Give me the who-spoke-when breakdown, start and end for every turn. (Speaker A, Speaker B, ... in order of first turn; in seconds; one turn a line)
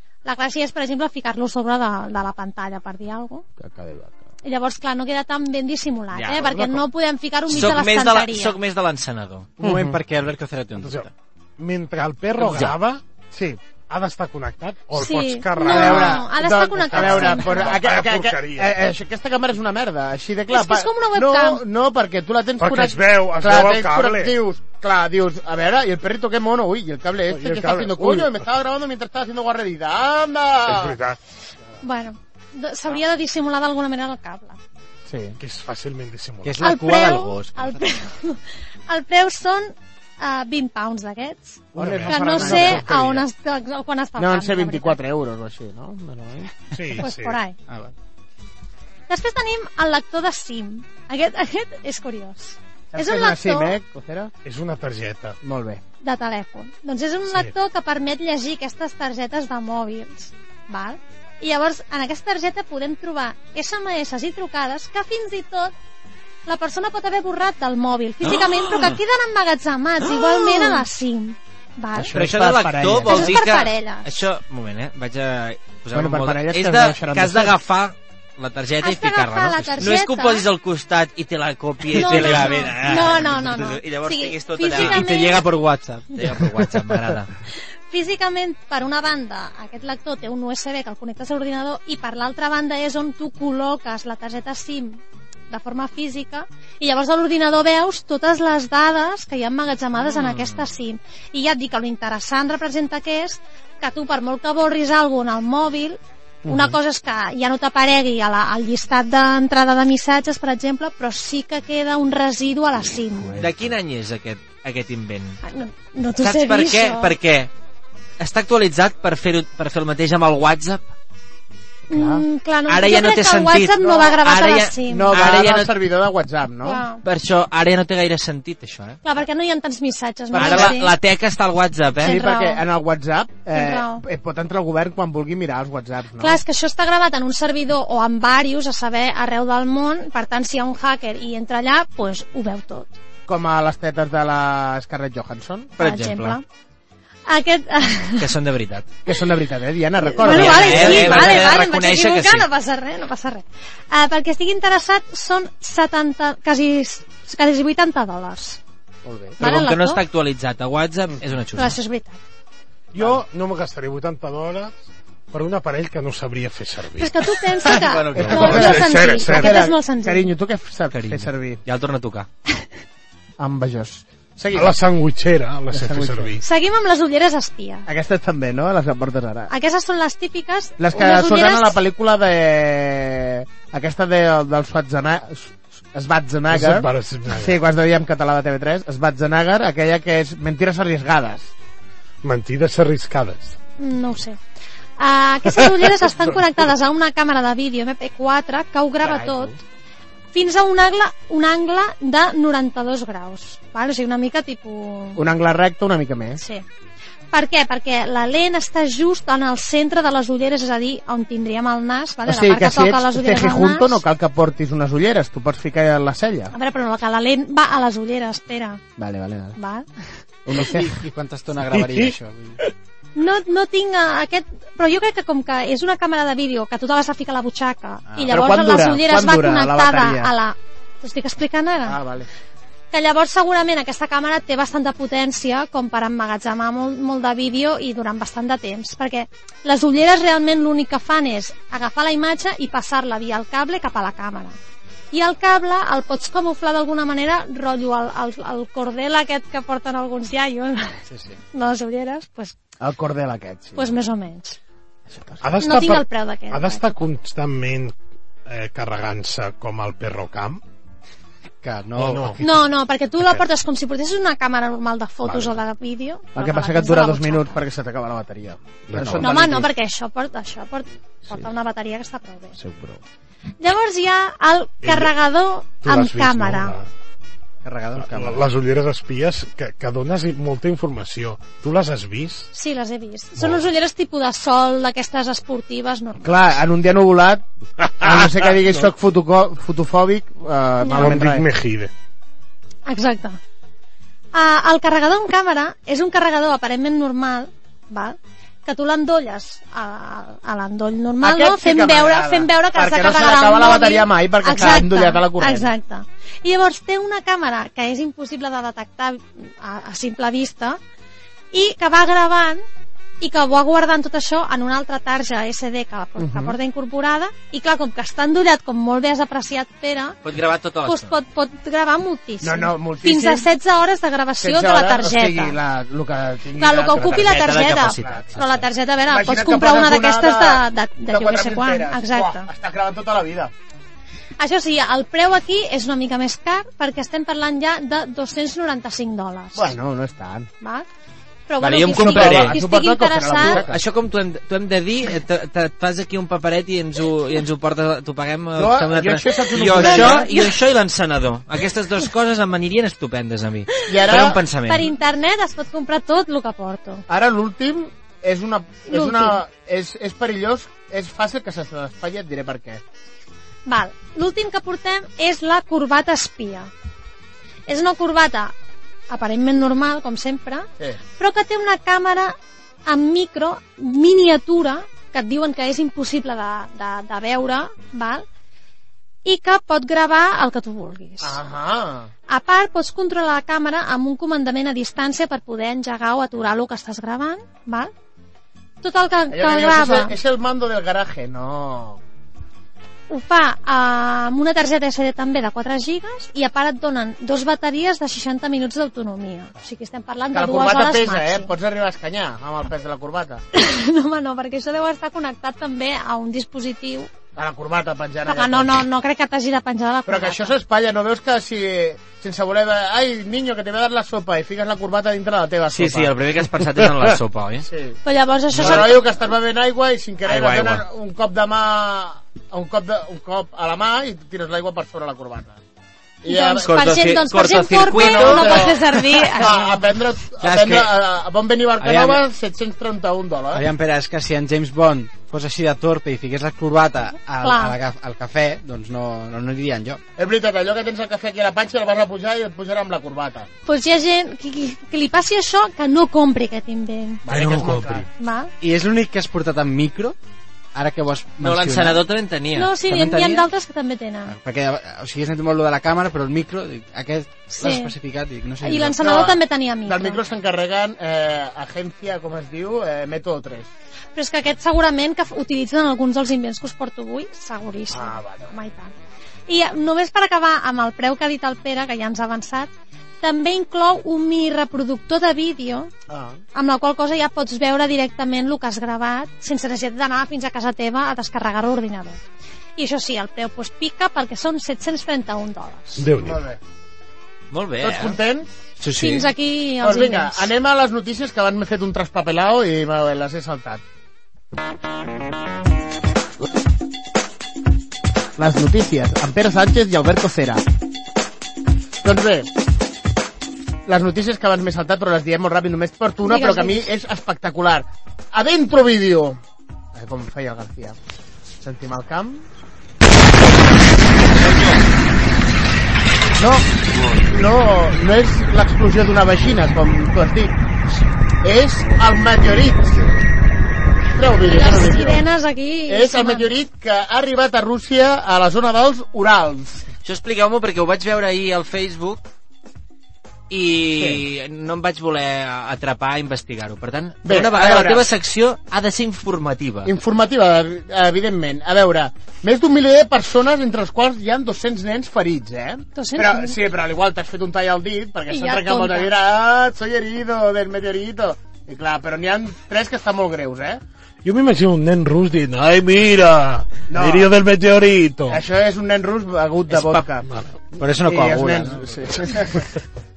Speaker A: 0.2-3.5
Speaker B: 3.6-4.2
Speaker A: 4.4-8.6
Speaker C: 6.1-6.4
Speaker D: 6.4-6.8
Speaker C: 7.5-9.5
Speaker E: 9.6-11.1
Speaker B: 9.6-10.0
Speaker D: 10.8-13.0
Speaker B: 12.4-12.7
Speaker B: 13.3-13.6
Speaker D: 13.9-16.3
Speaker A: 14.9-17.8
Speaker B: 15.6-31.0
Speaker D: 16.9-18.7
Speaker A: 20.5-21.6
Speaker D: 22.6-24.4
Speaker D: 27.3-28.4
Speaker D: 30.7-31.2
Speaker A: 31.8-34.6
Speaker B: 35.1-35.4
Speaker D: 35.4-36.6
Speaker E: 36.4-37.9
Speaker A: 36.6-45.0
Speaker B: 41.8-42.9
Speaker D: 41.8-43.2
Speaker B: 44.2-46.5
Speaker D: 46.7-47.4
Speaker A: 47.0-47.6
Speaker E: 47.7-47.9
Speaker A: 49.1-53.8
Speaker B: 52.9-54.3
Speaker D: 54.4-55.4
Speaker B: 55.4-55.8
Speaker A: 56.0-65.7
Speaker A: 66.5-72.2
Speaker C: 68.6-68.9
Speaker C: 70.4-70.8
Speaker B: 72.0-73.4
Speaker C: 72.1-85.4
Speaker A: 73.1-74.2
Speaker B: 75.9-77.6
Speaker A: 78.8-80.4
Speaker E: 81.9-83.3
Speaker A: 82.0-85.4
Speaker E: 84.7-86.3
Speaker C: 86.2-87.3
Speaker A: 87.9-113.4
Speaker C: 100.0-100.7
Speaker B: 106.5-106.8
Speaker B: 113.1-113.7
Speaker C: 113.4-115.4
Speaker A: 115.4-117.2
Speaker C: 116.2-117.5
Speaker C: 118.2-120.9
Speaker B: 121.9-122.2
Speaker A: 121.9-125.2
Speaker C: 122.7-125.7
Speaker B: 123.8-124.2
Speaker B: 124.8-126.8
Speaker A: 126.6-127.0
Speaker C: 127.0-129.0
Speaker A: 129.0-130.9
Speaker B: 130.3-130.8
Speaker C: 130.3-132.2
Speaker B: 132.0-136.4
Speaker A: 132.0-132.6
Speaker A: 133.5-134.0
Speaker A: 136.2-143.0
Speaker B: 143.3-145.7
Speaker C: 145.8-146.4
Speaker A: 145.8-146.4
Speaker A: 147.3-148.3
Speaker C: 148.2-148.9
Speaker B: 149.1-151.5
Speaker C: 150.2-152.5
Speaker A: 150.2-158.6
Speaker B: 159.1-159.4
Speaker A: 159.4-160.0
Speaker C: 159.4-161.8
Speaker A: 161.6-162.2
Speaker D: 162.9-164.7
Speaker D: 165.3-169.7
Speaker A: 167.0-170.3
Speaker E: 167.8-168.5
Speaker B: 168.1-171.6
Speaker C: 170.9-172.3
Speaker B: 173.4-174.8
Speaker D: 174.5-176.4
Speaker B: 175.7-176.4
Speaker A: 176.4-177.9
Speaker B: 177.9-179.5
Speaker A: 179.5-181.8
Speaker B: 180.8-191.5
Speaker D: 186.5-187.6
Speaker D: 192.2-193.6
Speaker A: 193.8-194.4
Speaker A: 195.0-199.6
Speaker D: 195.5-196.4
Speaker B: 199.0-199.6
Speaker A: 200.3-205.2
Speaker B: 205.2-206.4
Speaker A: 206.4-206.7
Speaker A: 207.3-214.0
Speaker B: 212.3-216.5
Speaker A: 216.5-218.8
Speaker B: 219.0-219.6
Speaker A: 219.6-219.9
Speaker B: 220.4-220.9
Speaker E: 220.5-222.6
Speaker D: 221.7-222.7
Speaker A: 223.2-232.0
Speaker E: 228.1-228.4
Speaker B: 228.3-230.3
Speaker B: 231.8-232.3
Speaker A: 232.9-244.6
Speaker A: 245.1-251.0
Speaker E: 251.1-251.4
Speaker A: 251.5-252.5
Speaker B: 252.8-253.9
Speaker A: 253.8-254.6
Speaker B: 255.1-255.5
Speaker D: 255.4-257.9
Speaker A: 255.6-256.9
Speaker D: 258.5-260.6
Speaker E: 261.6-262.5
Speaker D: 262.0-262.4
Speaker A: 262.4-267.6
Speaker D: 265.2-265.6
Speaker B: 266.4-269.3
Speaker D: 268.9-269.4
Speaker E: 268.9-269.6
Speaker A: 269.2-272.6
Speaker B: 272.6-273.0
Speaker A: 273.6-276.8
Speaker D: 274.8-275.1
Speaker D: 275.8-276.9
Speaker E: 277.6-278.5
Speaker D: 278.0-282.5
Speaker A: 282.5-286.5
Speaker D: 283.4-283.6
Speaker B: 286.2-287.4
Speaker D: 287.8-288.3
Speaker B: 288.0-291.5
Speaker A: 290.8-291.1
Speaker D: 290.9-291.9
Speaker A: 292.9-293.4
Speaker A: 294.3-310.8
Speaker B: 301.2-305.7
Speaker A: 311.5-312.6
Speaker A: 313.2-320.2
Speaker B: 316.2-316.6
Speaker C: 320.2-321.1
Speaker A: 320.9-325.6
Speaker B: 322.4-323.5
Speaker B: 324.4-328.5
Speaker A: 326.6-332.5
Speaker C: 327.0-328.7
Speaker B: 329.1-333.5
Speaker A: 334.4-339.7
Speaker B: 339.6-340.5
Speaker A: 340.6-340.9
Speaker A: 341.5-343.6
Speaker C: 341.6-342.6
Speaker B: 341.9-343.8
Speaker C: 343.4-354.9
Speaker B: 348.6-350.3
Speaker A: 349.8-350.5
Speaker B: 353.9-354.4
Speaker A: 354.7-357.1
Speaker B: 357.1-362.8
Speaker A: 358.9-359.4
Speaker A: 363.7-366.7
Speaker A: 367.7-368.5
Speaker A: 369.1-372.4
Speaker A: 372.9-378.2
Speaker A: 379.2-381.4
Speaker B: 381.2-382.1
Speaker A: 382.3-387.9
Speaker A: 388.8-390.1
Speaker B: 389.3-392.0
Speaker A: 393.1-401.5
Speaker B: 400.3-403.4
Speaker A: 403.5-407.1
Speaker B: 407.4-408.9
Speaker A: 408.3-410.5
Speaker B: 410.1-416.1
Speaker C: 415.7-417.7
Speaker B: 417.6-418.0
Speaker A: 418.1-419.1
Speaker B: 418.5-425.6
Speaker C: 418.6-418.9
Speaker C: 420.3-420.8
Speaker B: 426.2-426.7
Speaker A: 426.3-429.7
Speaker C: 426.6-429.0
Speaker B: 427.9-433.7
Speaker E: 430.4-430.9
Speaker E: 433.5-440.0
Speaker A: 437.4-437.8
Speaker B: 440.2-443.5
Speaker A: 443.7-447.2
Speaker B: 447.3-448.1
Speaker D: 447.3-448.0
Speaker A: 448.2-448.5
Speaker E: 448.6-450.2
Speaker E: 450.7-452.0
Speaker C: 451.4-453.1
Speaker A: 452.6-454.3
Speaker E: 452.9-453.5
Speaker E: 454.3-459.3
Speaker A: 457.5-457.9
Speaker A: 458.6-460.2
Speaker B: 459.0-463.7
Speaker A: 464.1-468.9
Speaker B: 467.9-468.5
Speaker A: 469.5-472.7
Speaker A: 473.2-475.9
Speaker B: 476.1-476.4
Speaker A: 476.6-482.2
Speaker A: 482.8-486.1
Speaker D: 486.0-486.4
Speaker B: 486.2-486.6
Speaker C: 487.5-488.2
Speaker B: 487.8-488.5
Speaker C: 488.8-489.3
Speaker A: 489.0-490.5
Speaker B: 489.8-493.8
Speaker B: 498.4-500.6
Speaker B: 502.0-502.5
Speaker B: 503.9-509.4
Speaker A: 506.2-506.8
Speaker B: 509.9-511.0
Speaker B: 511.6-512.5
Speaker B: 516.4-520.6
Speaker B: 521.4-523.0
Speaker B: 524.1-525.2
Speaker A: 524.5-526.5
Speaker B: 525.9-529.9
Speaker C: 530.0-532.2
Speaker C: 533.5-539.9
Speaker B: 534.0-534.2
Speaker B: 537.2-538.1
Speaker B: 539.9-553.8
Speaker A: 546.0-546.6
Speaker A: 548.3-549.1
Speaker D: 554.2-558.4
Speaker B: 556.9-557.3
Speaker B: 558.3-562.7
Speaker D: 560.3-560.5
Speaker E: 560.8-562.0